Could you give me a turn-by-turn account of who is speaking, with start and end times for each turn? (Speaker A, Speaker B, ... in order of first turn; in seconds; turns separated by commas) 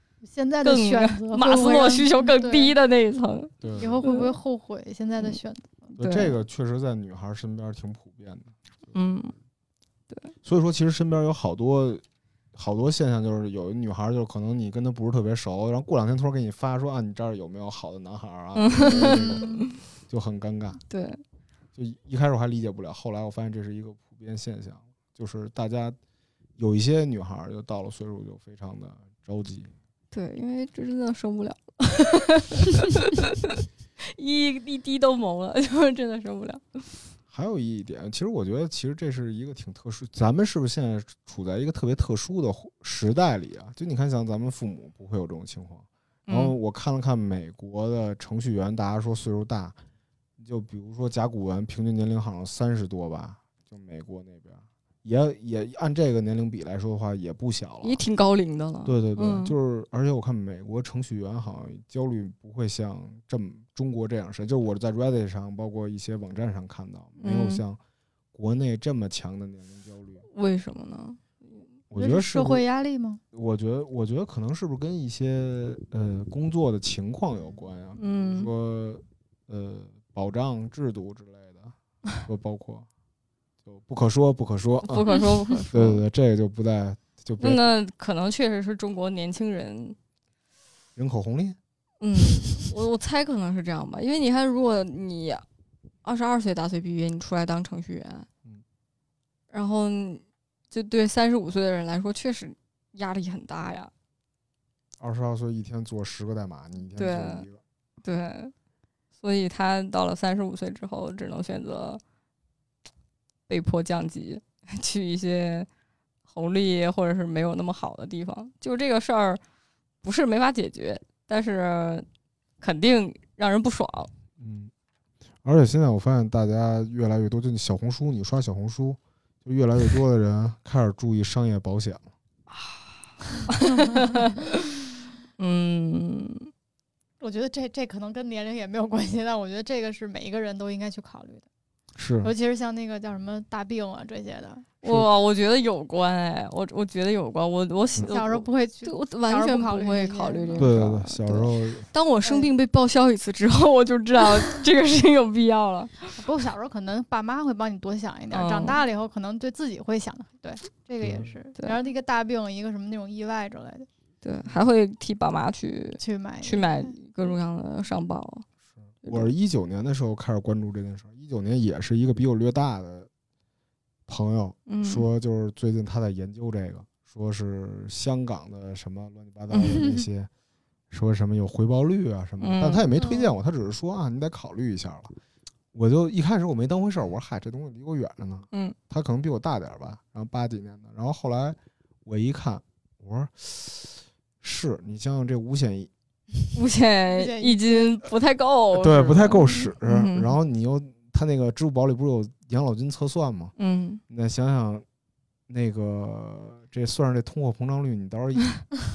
Speaker A: 0.2-2.7, Speaker B: 0.6-4.3, Speaker C: 3.6-4.0, Speaker A: 3.8-6.0, Speaker C: 6.0-8.9, Speaker B: 6.0-6.3, Speaker B: 8.9-9.3, Speaker C: 10.4-12.0, Speaker C: 12.5-20.8, Speaker B: 18.6-19.8, Speaker A: 19.1-19.6, Speaker B: 20.9-21.2, Speaker C: 21.8-26.0, Speaker C: 26.6-29.7, Speaker B: 30.1-33.6, Speaker B: 34.1-36.8, Speaker C: 37.3-49.8, Speaker B: 46.3-46.5, Speaker C: 50.4-58.0, Speaker B: 57.8-59.5, Speaker C: 58.9-67.8, Speaker B: 67.2-67.6, Speaker C: 68.3-70.3, Speaker B: 70.3-71.2, Speaker C: 71.9-72.6, Speaker A: 72.0-73.2, Speaker C: 73.3-82.9, Speaker B: 78.0-78.5, Speaker C: 83.6-85.2, Speaker B: 84.8-86.0, Speaker C: 85.7-87.6, Speaker B: 87.4-90.0, Speaker C: 91.0-91.6, Speaker B: 92.0-95.4, Speaker B: 96.0-98.3, Speaker B: 99.5-103.9, Speaker C: 105.0-107.6, Speaker B: 107.0-107.4, Speaker B: 108.0-108.5, Speaker B: 109.2-112.0, Speaker B: 113.5-115.7, Speaker B: 116.3-119.4, Speaker B: 120.0-122.1, Speaker B: 122.6-124.1, Speaker C: 124.4-124.7, Speaker C: 125.4-132.1, Speaker B: 132.5-132.8, Speaker B: 133.5-134.7, Speaker B: 135.4-136.5, Speaker A: 137.2-141.4, Speaker C: 142.0-142.3, Speaker A: 142.2-144.7, Speaker B: 144.8-156.1, Speaker A: 148.1-150.7, Speaker C: 150.6-151.9, Speaker A: 152.2-152.5, Speaker A: 156.1-163.9, Speaker B: 158.3-158.8, Speaker C: 161.0-161.3, Speaker B: 164.2-168.4, Speaker A: 166.0-166.9, Speaker C: 168.9-173.1, Speaker B: 169.0-169.3, Speaker C: 174.1-180.3, Speaker B: 174.7-175.1, Speaker A: 179.7-180.0, Speaker C: 180.9-185.1, Speaker B: 182.4-182.9, Speaker C: 185.7-195.9, Speaker B: 196.5-200.3, Speaker A: 197.1-198.0, Speaker C: 198.8-203.5, Speaker B: 203.6-204.0, Speaker C: 204.1-204.8, Speaker C: 205.5-208.6